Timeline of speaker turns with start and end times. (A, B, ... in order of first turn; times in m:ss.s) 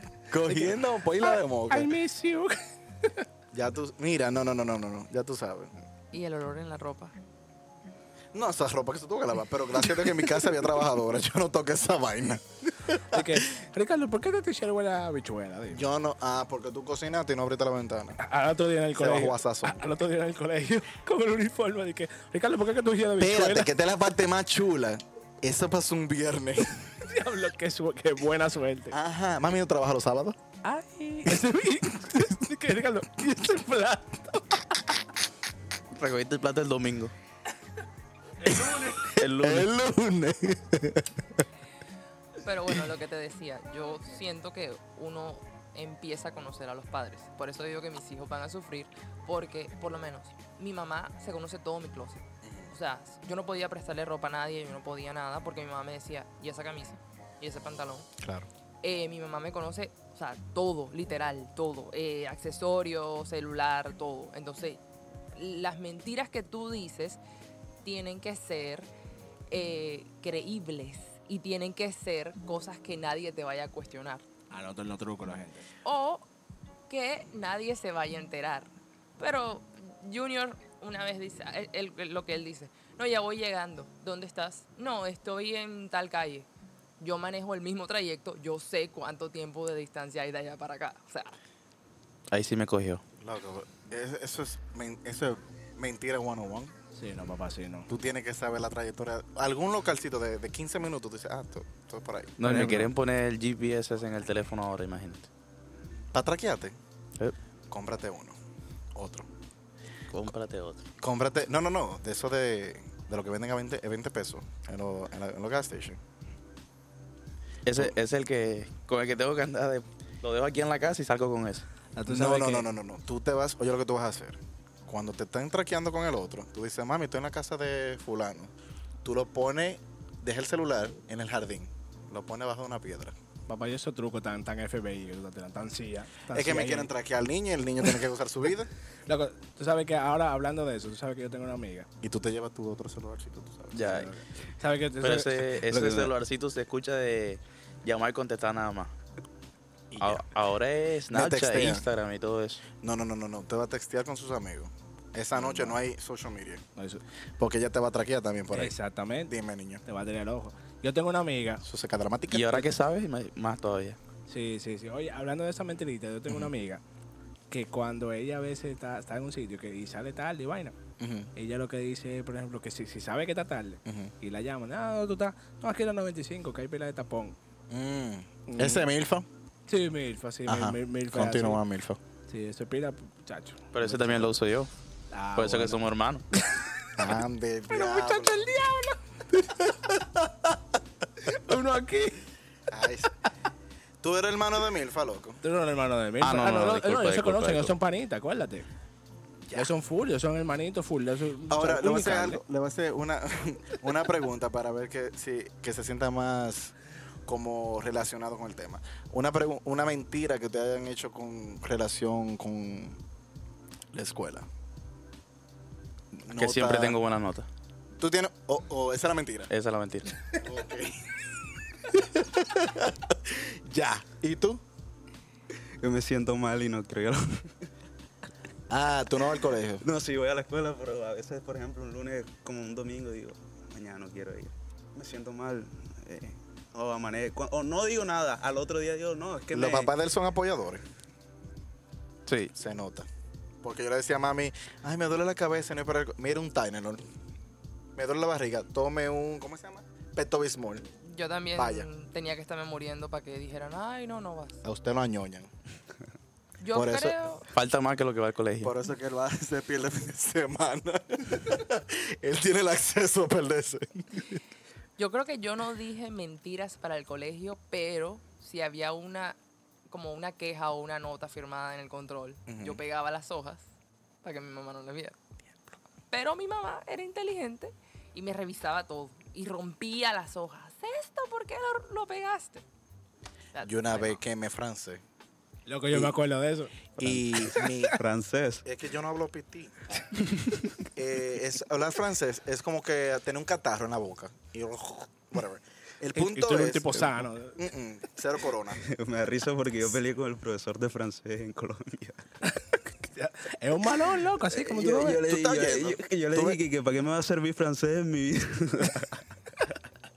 0:00.3-0:01.9 A
0:01.2-0:03.2 B
0:03.5-0:05.8 A
0:06.1-0:07.1 C
0:08.3-0:13.4 A
0:13.0-0:15.9 B
0:15.7-0:18.2 A
0:18.2-0:23.7 B
0:18.9-0:19.8 A
0:23.2-0:26.9 A
0:27.0-0:29.0 B
0:28.9-0:30.4 A
0:30.6-0:34.9 B
0:35.9-0:37.1 D
0:38.4-0:41.2 A
0:38.5-0:38.9 B
0:39.2-0:39.7 D
0:42.4-0:58.1 C
0:52.4-0:52.7 A
0:58.2-0:58.5 A
0:58.8-1:04.8 C
1:05.3-1:07.2 C
1:07.8-1:08.9 C
1:09.5-1:14.2 C
1:14.5-1:15.7 B
1:15.8-1:16.2 C
1:16.9-1:26.5 C
1:27.0-1:31.4 C
1:32.3-1:33.0 D
1:33.2-1:36.7 A
1:36.9-1:37.9 B
1:37.9-1:42.8 A
1:42.4-1:45.3 D
1:42.4-1:42.9 B
1:46.1-1:46.7 A
1:47.7-1:48.4 A
1:48.9-1:49.3 A
1:50.1-1:50.8 D
1:51.0-1:56.0 A
1:57.6-2:01.6 D
2:02.0-2:02.7 B
2:02.1-2:08.5 A
2:09.0-2:13.1 A
2:13.5-2:16.9 B
2:16.3-2:18.7 A
2:19.1-2:21.9 B
2:22.0-2:24.1 A
2:23.7-2:24.1 D
2:23.8-2:26.1 B
2:25.0-2:28.9 D
2:29.9-2:30.3 A
2:30.0-2:32.6 D
2:31.1-2:31.8 A
2:32.8-2:36.6 A
2:35.4-2:35.8 B
2:36.8-2:37.0 B
2:37.4-2:38.8 A
2:38.5-2:39.3 B
2:39.3-2:39.8 A
2:39.8-2:41.6 B
2:41.6-2:42.7 A
2:42.3-2:44.0 D
2:44.3-2:46.8 B
2:47.5-2:50.8 B
2:51.0-2:51.3 A
2:51.3-2:57.4 B
2:53.8-2:54.1 A
2:57.7-2:59.2 A
2:58.5-2:58.9 B
2:59.7-3:01.6 B
3:00.5-3:02.0 A
3:02.3-3:04.3 B
3:03.7-3:04.7 D
3:05.1-3:05.8 B
3:05.4-3:06.2 D
3:06.4-3:07.1 B
3:07.0-3:08.6 A
3:07.7-3:09.0 B
3:09.3-3:10.6 A
3:11.2-3:12.2 B
3:12.7-3:13.1 A
3:14.0-3:15.4 A
3:15.4-3:18.7 B
3:16.2-3:17.7 D
3:19.4-3:19.7 A
3:19.5-3:22.4 B
3:21.5-3:26.7 A
3:27.2-3:33.0 A
3:33.9-3:34.4 A
3:36.1-3:37.0 A
3:36.3-3:37.5 D
3:38.0-3:39.5 A
3:39.5-3:40.3 D
3:40.4-3:44.6 A
3:45.8-3:47.5 E
3:48.7-3:49.8 A
3:49.8-3:59.9 E
3:59.5-4:00.8 A
4:02.3-4:02.5 D
4:02.5-4:03.1 A
4:03.6-4:07.0 A
4:08.0-4:10.8 A
4:11.0-4:14.6 C
4:11.5-4:11.9 A
4:14.6-4:15.5 A
4:16.6-4:17.4 C
4:16.7-4:17.2 A
4:17.5-4:18.7 D
4:18.6-4:24.4 A
4:25.0-4:29.4 C
4:29.9-4:33.6 C
4:32.5-4:32.8 A
4:34.2-4:35.1 C
4:36.1-4:42.6 C
4:43.5-4:44.2 C
4:43.6-4:45.0 A
4:45.7-4:47.9 B
4:47.0-4:48.0 A
4:47.9-4:48.6 E
4:48.6-4:49.8 A
4:51.0-4:58.8 A
4:56.1-4:57.6 B
4:58.8-5:02.2 E
5:02.4-5:05.2 B
5:04.6-5:09.2 E
5:05.2-5:06.6 A